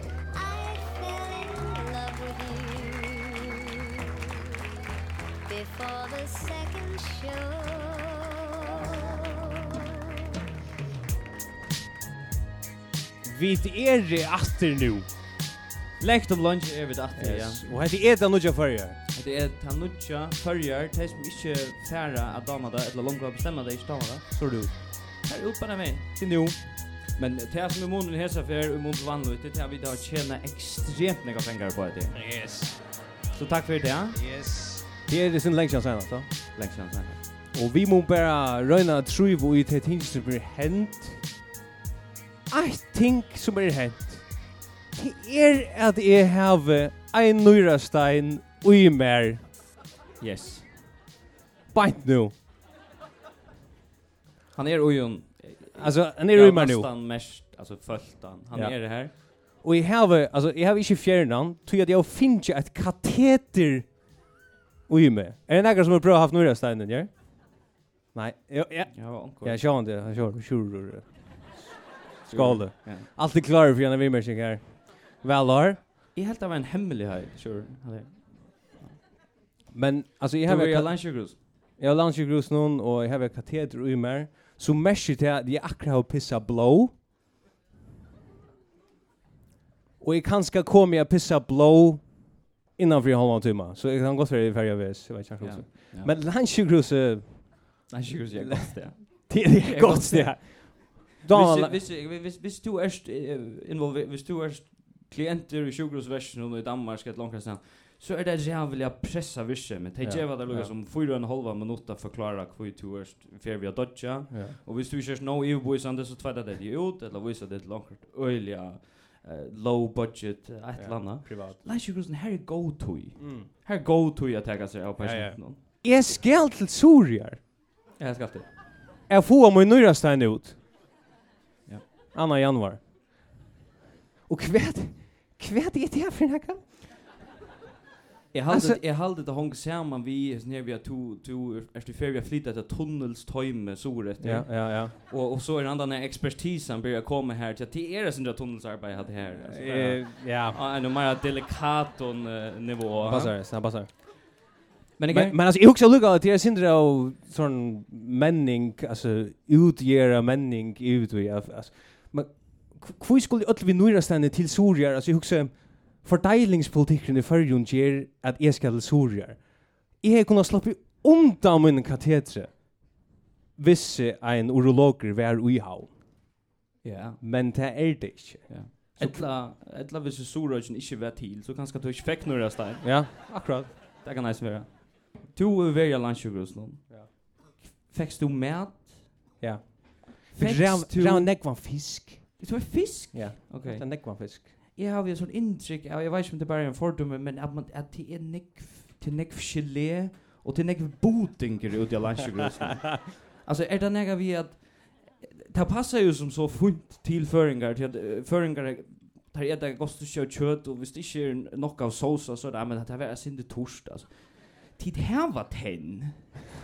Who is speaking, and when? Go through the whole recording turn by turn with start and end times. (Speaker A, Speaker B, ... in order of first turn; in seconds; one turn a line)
Speaker A: 0.3-3.7
Speaker A: 5.5-9.9
Speaker B: 13.2-15.1
Speaker C: 16.0-17.7
Speaker B: 17.1-19.0
Speaker C: 19.1-24.3
Speaker B: 24.3-24.8
Speaker C: 25.2-26.1
Speaker B: 26.1-26.6
Speaker C: 27.1-32.2
Speaker B: 32.1-32.8
Speaker C: 33.3-34.2
Speaker B: 34.1-36.3
Speaker C: 36.5-37.2
Speaker B: 37.5-41.2
Speaker B: 42.5-49.4
Speaker C: 50.2-50.7
Speaker B: 51.7-52.3
Speaker C: 54.5-59.1
Speaker B: 55.7-56.9
Speaker B: 58.5-64.0
Speaker B: 64.9-67.6
Speaker B: 68.1-75.8
Speaker C: 68.9-69.6
Speaker C: 72.3-73.1
Speaker C: 76.1-78.9
Speaker B: 79.7-86.9
Speaker C: 80.4-81.4
Speaker B: 90.0-101.8
Speaker C: 95.4-96.1
Speaker C: 97.9-125.6
Speaker B: 110.0-110.7
Speaker B: 114.3-114.6
Speaker B: 120.8-121.6
Speaker B: 123.2-123.5
Speaker B: 125.0-127.4
Speaker C: 128.0-128.5
Speaker B: 129.1-130.6
Speaker B: 132.1-133.3
Speaker B: 134.3-136.7
Speaker C: 138.3-153.3
Speaker B: 138.5-138.8
Speaker B: 144.2-144.9
Speaker B: 149.3-150.6
Speaker B: 153.0-153.9
Speaker C: 155.0-155.4
Speaker B: 155.1-173.0
Speaker B: 173.6-176.0
Speaker C: 176.8-177.2
Speaker B: 177.2-179.3
Speaker C: 178.5-183.4
Speaker B: 182.8-183.7
Speaker C: 184.0-189.1
Speaker B: 189.4-194.5
Speaker C: 190.3-191.7
Speaker C: 192.4-216.4